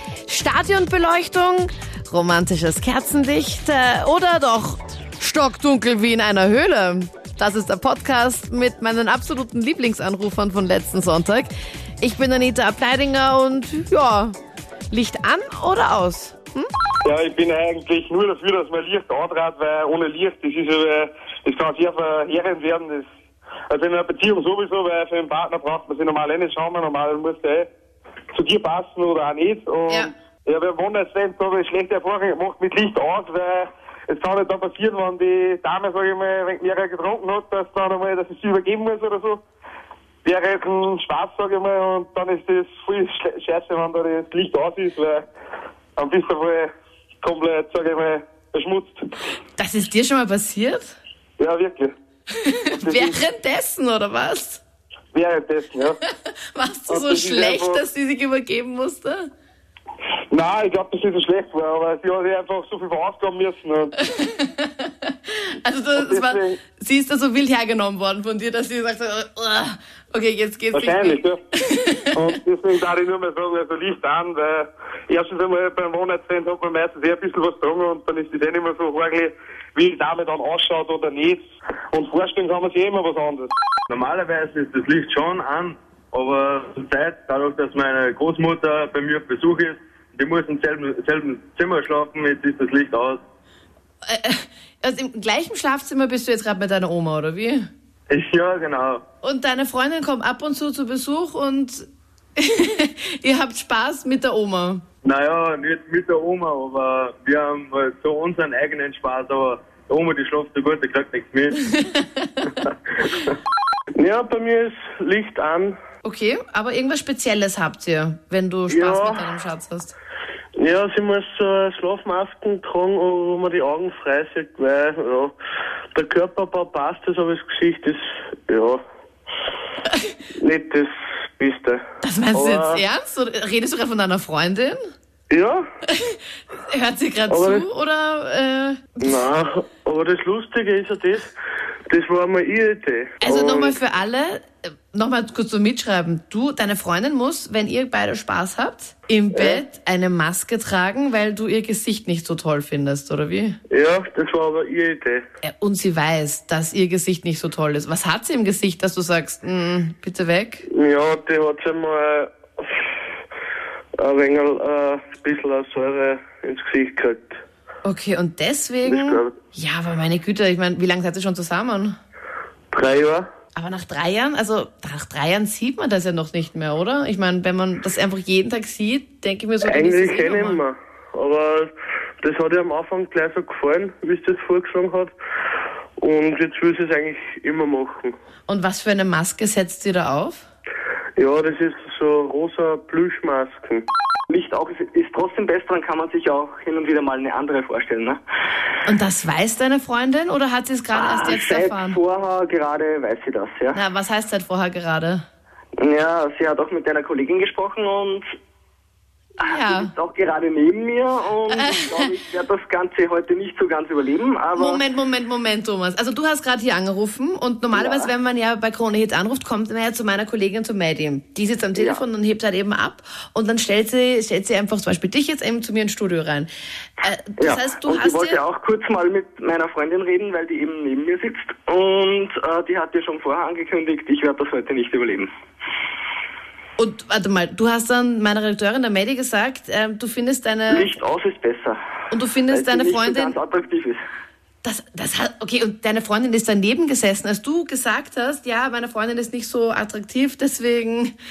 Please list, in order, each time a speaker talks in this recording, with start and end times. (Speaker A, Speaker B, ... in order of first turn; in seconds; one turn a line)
Speaker A: 0.2-11.5
Speaker A: 12.0-14.3
Speaker A: 14.9-16.7
Speaker B: 17.0-23.1
Speaker B: 23.7-27.7
Speaker B: 28.3-39.4
Speaker B: 40.2-45.2
Speaker B: 46.0-46.7
Speaker B: 47.2-49.0
Speaker A: 49.6-51.0
Speaker B: 51.4-51.9
Speaker A: 52.4-54.6
Speaker B: 52.8-53.1
Speaker B: 55.1-56.0
Speaker A: 56.0-59.3
Speaker B: 56.9-57.8
Speaker B: 60.3-63.9
Speaker A: 64.1-72.2
Speaker B: 66.0-66.6
Speaker B: 70.7-71.4
Speaker B: 72.1-83.5
Speaker C: 83.9-93.2
Speaker A: 94.0-97.7
Speaker C: 98.1-99.0
Speaker A: 99.2-104.8
Speaker C: 105.0-111.6
Speaker A: 111.7-112.5
Speaker D: 114.0-115.8
Speaker A: 116.0-119.9
Speaker D: 118.7-119.2
Speaker D: 120.6-125.3
Speaker D: 125.9-128.8
Speaker D: 130.4-131.8
Speaker A: 132.0-134.8
Speaker D: 132.3-132.8
Speaker D: 135.3-135.6
Speaker A: 135.9-139.2
Speaker D: 137.3-137.7
Speaker D: 139.0-141.3
Speaker D: 141.9-143.7
Speaker A: 143.2-153.6
Speaker D: 149.3-149.6
Speaker D: 153.7-155.2
Speaker A: 155.4-160.6
Speaker D: 160.7-162.9
Speaker D: 164.0-167.4
Speaker A: 167.8-171.9
Speaker D: 168.9-169.3
Speaker D: 172.7-173.2
Speaker A: 173.5-180.6
Speaker D: 179.7-185.1
Speaker D: 186.0-188.1
Speaker A: 188.5-190.5
Speaker D: 191.2-193.8
Speaker E: 194.3-198.2
Speaker A: 198.8-202.0
Speaker E: 200.9-203.8
Speaker A: 203.7-205.2
Speaker E: 205.8-208.3
Speaker E: 209.4-214.8
Speaker A: 209.4-209.9
Speaker A: 211.5-212.1
Speaker A: 214.6-226.5
Speaker E: 217.7-218.1
Speaker E: 221.7-222.0
Speaker A: 227.0-228.4
Speaker E: 227.4-235.3
Speaker A: 236.8-240.9
Speaker E: 240.7-241.8
Speaker A: 242.1-243.4
Speaker E: 242.5-244.0
Speaker A: 244.6-251.1